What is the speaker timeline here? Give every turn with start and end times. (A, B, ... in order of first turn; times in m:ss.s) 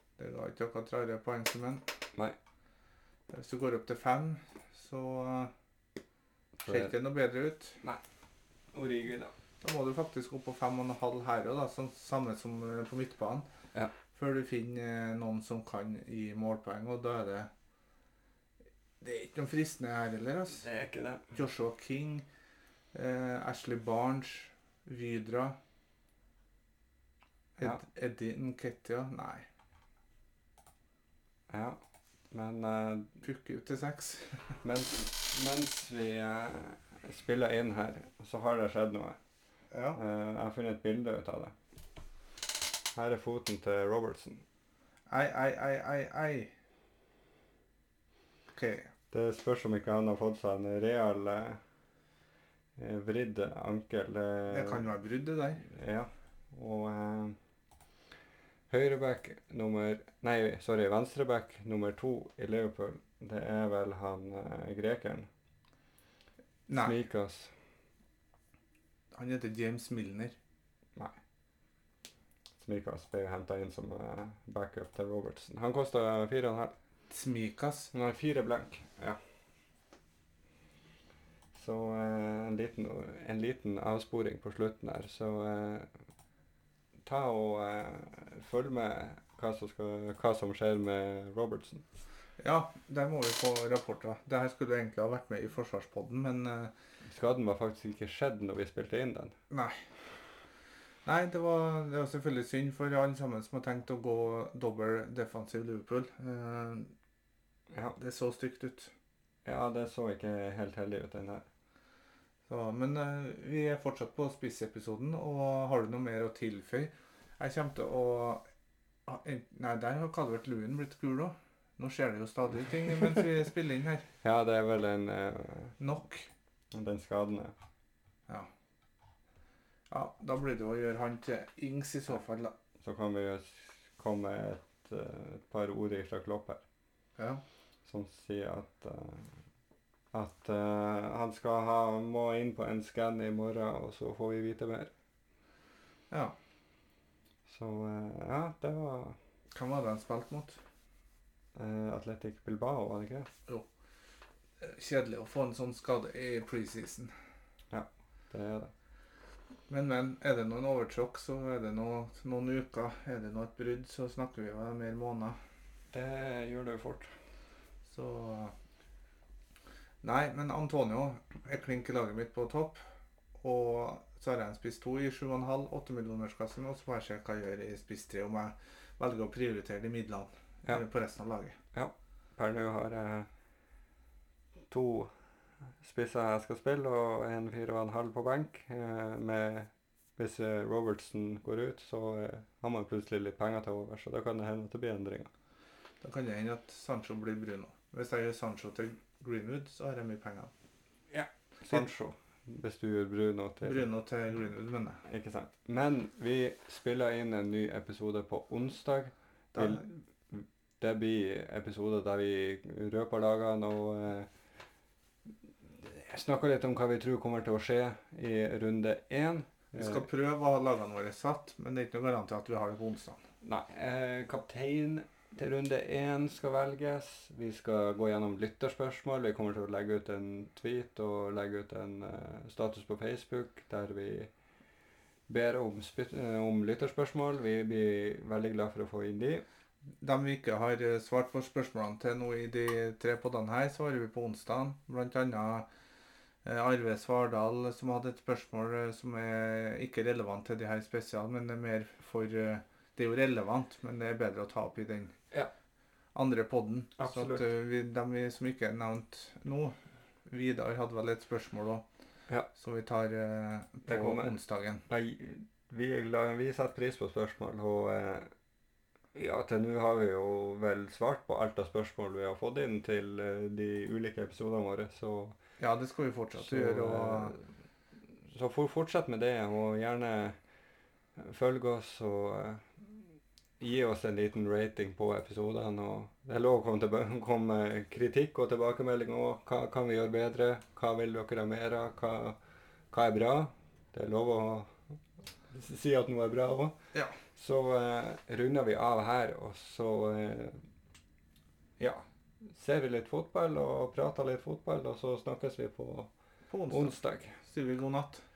0:00.2-0:01.9 A
0:03.3-0:05.5 A
0:06.6-0:06.9 B
0:06.6-0:07.8 A
0:08.7-0:09.3 B
0:09.6-0:13.5 A
0:14.2-0:17.5 A
0:19.0-0:20.6 A
0:20.6-0:21.4 B
0:21.3-0:22.3 A
0:22.9-0:25.6 A
0:27.6-0:29.5 A
0:31.5-0:33.2 B
0:33.2-0:34.6 A
0:34.6-0:39.2 B
0:39.7-0:40.0 A
0:40.0-0:41.6 B
0:42.9-0:44.4 B
0:45.1-0:46.5 A
0:48.5-0:48.9 A
0:49.1-0:51.6 B
0:52.8-0:54.9 B
0:54.5-0:55.6 A
0:55.6-0:57.4 B
0:58.7-1:05.3 B
1:06.7-1:07.0 A
1:06.8-1:07.5 B
1:09.1-1:10.4 A
1:12.6-1:16.8 B
1:17.1-1:17.9 A
1:17.9-1:19.2 B
1:21.5-1:25.9 B
1:27.0-1:31.8 B
1:32.4-1:36.7 A
1:37.0-1:39.4 B
1:39.5-1:39.8 A
1:41.0-1:46.9 A
1:47.7-1:48.0 B
1:48.0-1:48.9 A
1:49.4-1:51.4 B
1:52.5-1:58.4 A
1:59.1-2:04.1 A
2:04.2-2:05.8 B
2:05.8-2:06.3 A
2:06.7-2:07.5 B
2:09.9-2:12.6 A
2:12.8-2:16.6 B
2:17.8-2:19.4 B
2:20.1-2:24.9 B
2:27.5-2:29.2 B
2:29.5-2:30.6 A
2:31.6-2:33.3 B
2:34.6-2:37.1 A
2:37.7-2:38.7 B
2:39.7-2:45.4 A
2:45.9-2:47.1 B
2:47.9-2:48.5 A
2:50.0-2:52.8 A
2:53.4-3:01.6 A
3:01.7-3:03.3 B
3:04.7-3:05.1 B
3:05.8-3:15.3 B
3:16.0-3:20.5 A
3:21.1-3:23.8 B
3:23.6-3:25.0 A
3:25.0-3:34.3 B
3:29.5-3:29.8 A
3:35.6-3:40.1 B
3:39.8-3:43.2 A
3:43.4-3:54.3 B
3:55.3-3:59.4 B
4:00.0-4:05.7 A
4:06.4-4:15.2 A
4:16.2-4:19.8 A
4:17.0-4:17.4 B
4:20.3-4:21.8 A
4:22.5-4:24.8 A
4:23.9-4:24.3 B
4:24.9-4:28.3 B
4:29.1-4:35.4 B
4:35.6-4:37.4 A
4:36.4-4:37.4 B
4:38.2-4:40.4 B
4:41.2-4:43.0 B
4:43.6-4:52.4 B
4:52.9-4:55.0 B
4:55.5-4:56.8 B
4:57.4-5:00.6 B
5:01.8-5:06.1 B
5:06.5-5:08.2 A
5:06.7-5:07.4 B